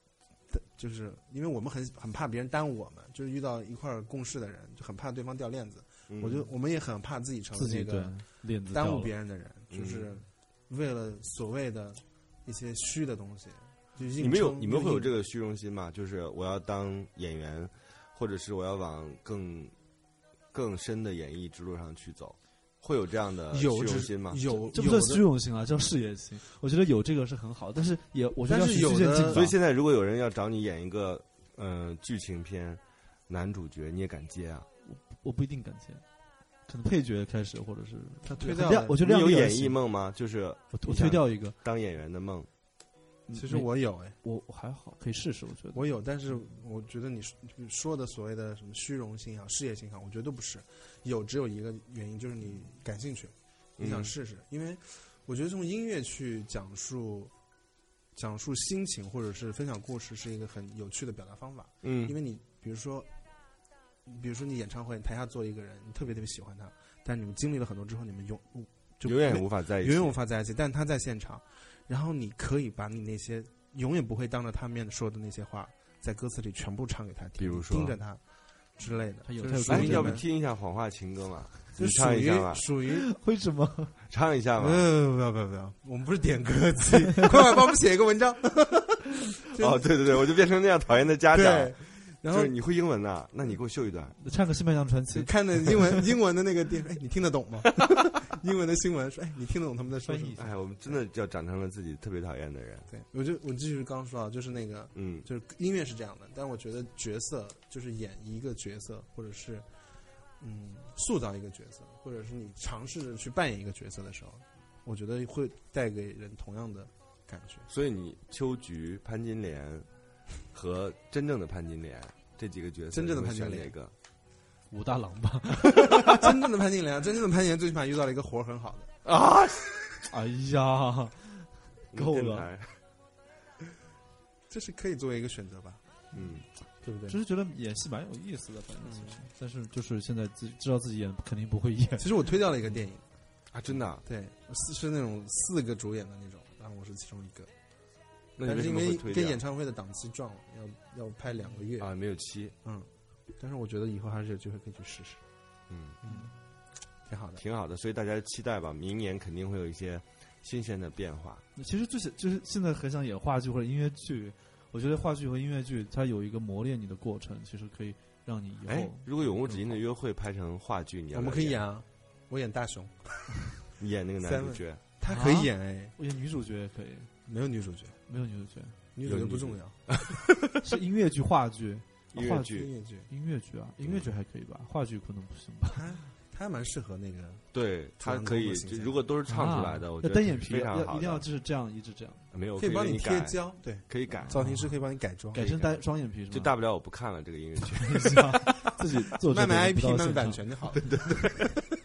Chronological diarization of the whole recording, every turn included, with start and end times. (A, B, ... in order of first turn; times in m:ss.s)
0:00.5-0:15.1 A
0:06.1-0:06.5 B
0:07.6-0:09.1 C
0:09.7-0:10.1 B
0:14.2-0:19.7 B
0:20.5-0:24.4 B
0:23.5-0:25.2 A
0:24.7-0:29.5 C
0:28.5-0:29.5 A
0:29.3-0:34.7 B
0:34.8-0:36.0 C
0:36.7-0:39.8 C
0:38.2-0:39.0 A
0:39.0-0:42.5 B
0:40.7-0:41.6 C
0:43.3-0:45.9 C
0:43.3-0:44.2 A
0:45.7-0:57.3 A
0:53.8-0:54.1 B
0:58.2-1:03.1 A
1:01.8-1:02.2 B
1:04.1-1:18.2 A
1:09.0-1:10.2 B
1:17.4-1:18.0 B
1:18.8-1:20.2 A
1:19.2-1:20.2 C
1:19.7-1:22.7 B
1:21.8-1:23.1 A
1:23.0-1:23.9 C
1:24.1-1:24.9 B
1:24.6-1:29.9 A
1:29.6-1:34.2 B
1:31.3-1:32.5 A
1:34.2-1:36.0 C
1:35.1-1:40.4 A
1:40.0-1:40.5 C
1:40.4-1:42.9 B
1:42.9-1:49.7 A
1:45.0-1:45.3 B
1:50.4-1:57.7 A
1:57.7-1:59.9 B
2:00.5-2:03.9 B
2:02.9-2:03.7 A
2:04.7-2:06.3 C
2:06.0-2:08.9 A
2:09.0-2:09.9 B
2:10.1-2:12.5 C
2:11.9-2:12.8 B
2:14.5-2:15.8 A
2:16.1-2:16.4 B
2:16.8-2:17.2 A
2:17.1-2:22.2 C
2:18.8-2:19.2 A
2:22.0-2:23.0 A
2:23.5-2:24.0 B
2:24.0-2:27.5 A
2:28.4-2:29.4 B
2:28.4-2:31.9 A
2:31.8-2:32.6 B
2:32.6-2:35.2 A
2:35.7-2:36.0 B
2:36.0-2:36.3 A
2:37.1-2:37.4 A
2:37.4-2:41.4 B
2:41.6-2:49.8 C
2:48.7-2:51.6 B
2:51.1-2:53.4 A
2:53.8-2:54.8 B
2:54.2-2:55.9 A
2:55.1-2:57.1 C
2:57.3-2:58.0 A
2:58.1-2:58.8 C
2:59.0-2:59.8 A
2:59.0-3:00.3 B
3:00.6-3:05.9 C
3:02.1-3:02.7 B
3:02.5-3:03.1 A
3:03.8-3:04.1 B
3:05.7-3:07.4 A
3:07.5-3:11.2 B
3:08.0-3:09.0 A
3:09.3-3:12.2 C
3:12.3-3:14.4 B
3:12.6-3:15.5 A
3:14.3-3:14.7 C
3:15.3-3:16.5 C
3:15.4-3:18.4 B
3:17.8-3:20.5 C
3:19.2-3:20.9 A
3:20.8-3:21.5 B